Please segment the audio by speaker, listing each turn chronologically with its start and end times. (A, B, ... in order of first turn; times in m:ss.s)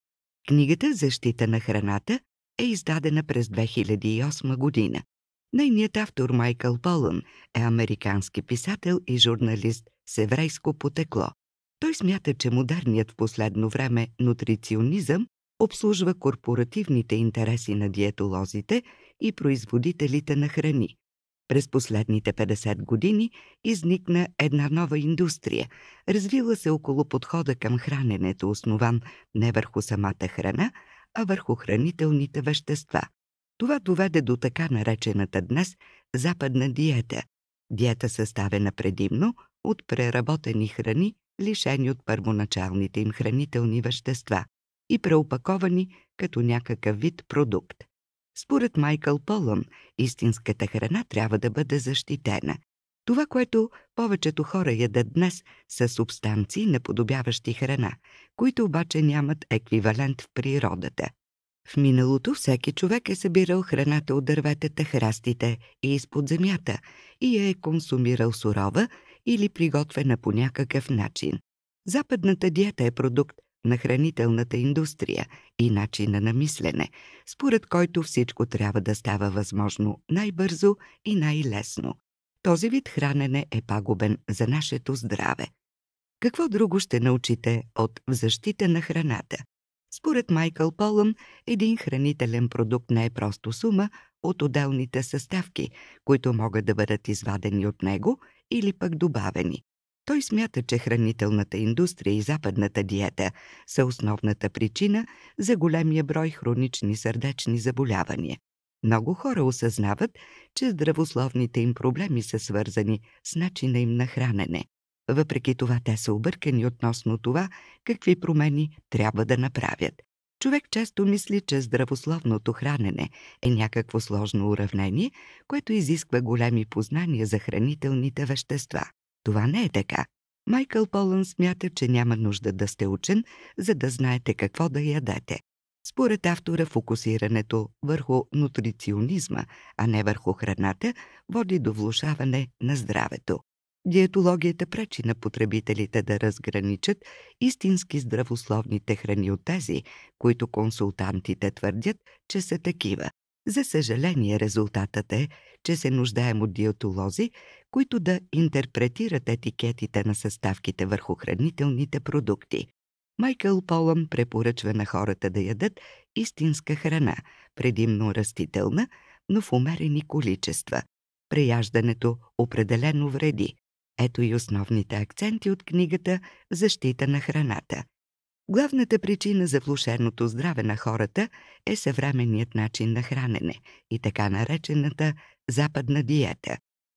0:00.5-0:05.0 A
0:05.5-0:21.0 A
0:21.5-1:01.1 A
1:01.7-1:25.5 A
1:26.2-2:57.8 A
2:58.5-3:06.6 A